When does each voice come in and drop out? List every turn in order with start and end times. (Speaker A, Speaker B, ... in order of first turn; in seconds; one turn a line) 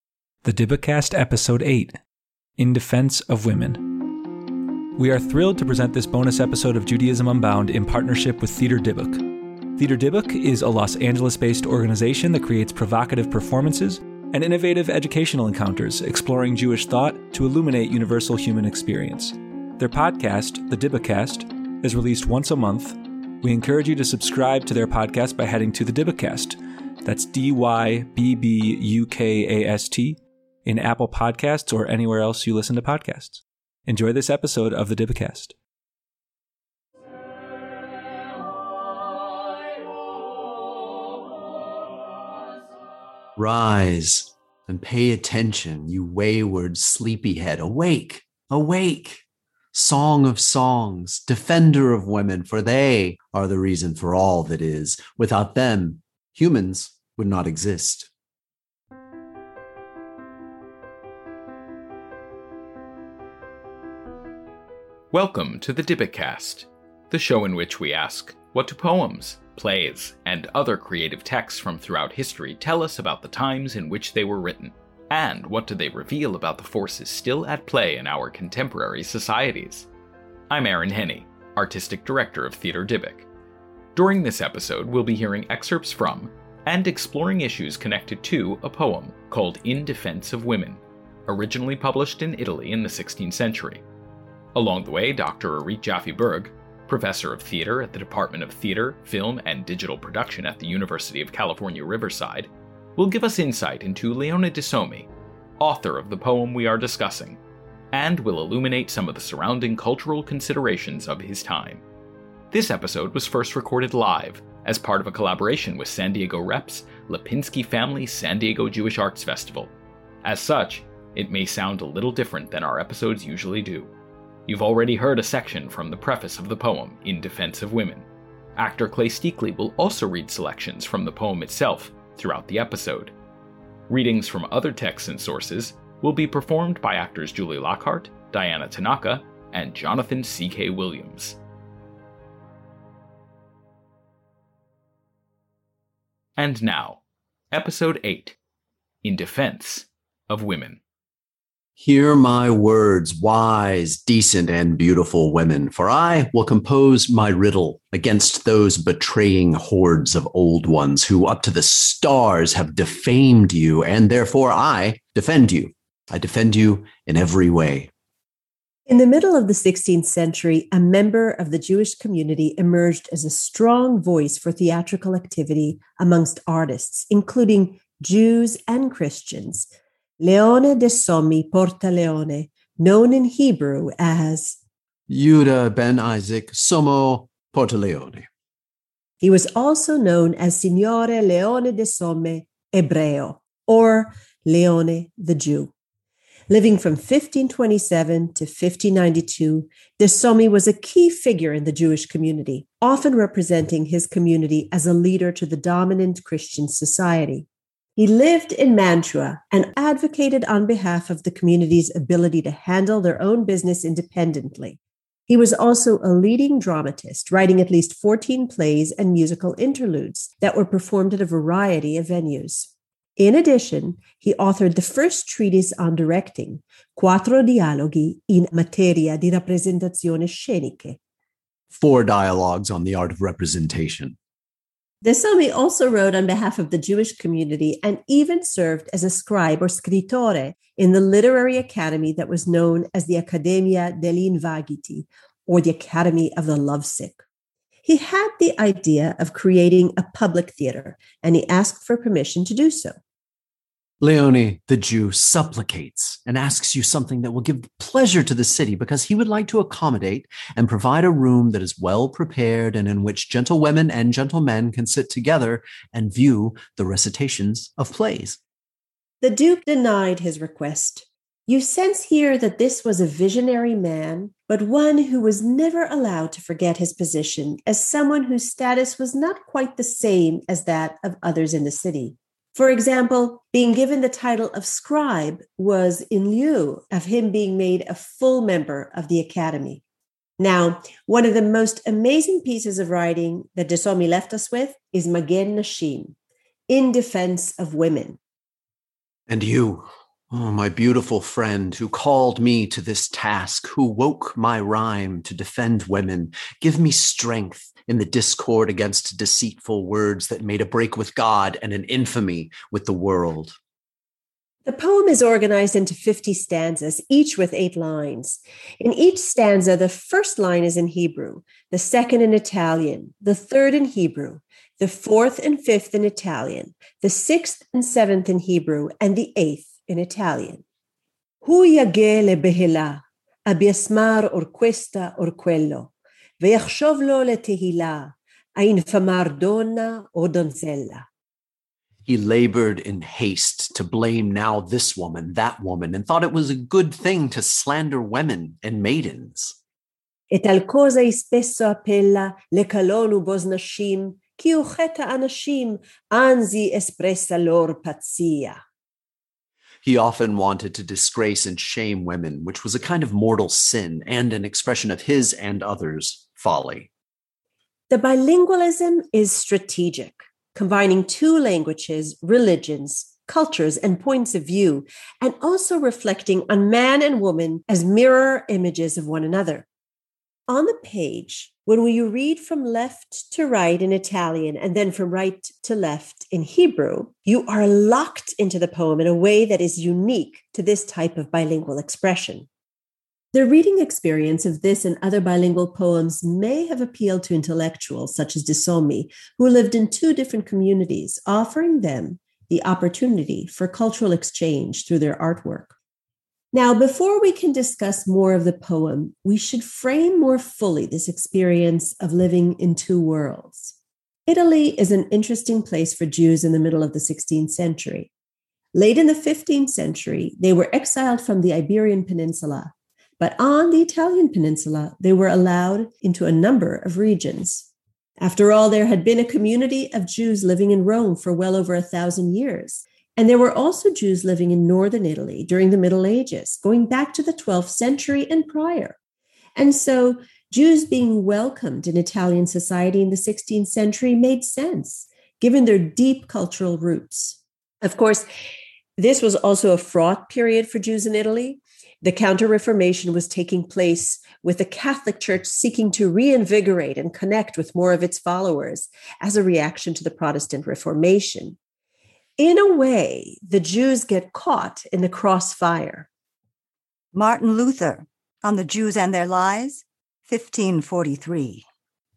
Speaker A: 0.4-2.0
Speaker A: 2.6-4.2
Speaker A: 4.9-35.5
Speaker B: 43.4-58.1
Speaker C: 65.1-79.9
Speaker C: 80.5-83.2
Speaker C: 83.9-93.8
Speaker C: 94.5-105.1
Speaker C: 105.6-107.4
Speaker C: 107.9-111.8
Speaker C: 112.5-119.7
Speaker C: 120.2-123.9
Speaker C: 124.5-128.0
Speaker C: 128.6-133.1
Speaker C: 133.9-141.4
Speaker C: 146.4-147.0
Speaker C: 147.5-148.3
Speaker C: 149.0-150.8
Speaker B: 151.8-167.9
Speaker D: 168.9-179.7
Speaker D: 180.2-184.6
Speaker B: 185.1-188.2
Speaker D: 189.2-195.7
Speaker D: 196.5-207.4
Speaker D: 208.0-231.0
Speaker B: 231.7-234.2
Speaker D: 235.0-247.2
Speaker D: 247.8-252.9
Speaker B: 254.0-268.4
Speaker D: 269.2-289.8
Speaker D: 290.4-296.1
Speaker D: 296.7-298.2
Speaker B: 299.3-313.5
Speaker D: 314.6-330.6
Speaker D: 331.4-341.1
Speaker B: 342.0-349.6
Speaker D: 350.3-358.6
Speaker B: 359.8-366.9
Speaker D: 367.9-379.6
Speaker D: 380.5-392.4
Speaker D: 393.3-405.7
Speaker D: 406.5-413.7
Speaker D: 414.3-418.1
Speaker D: 418.7-427.7
Speaker D: 428.2-438.9
Speaker D: 439.6-448.2
Speaker D: 449.0-461.6
Speaker D: 462.4-466.1
Speaker E: 467.1-471.6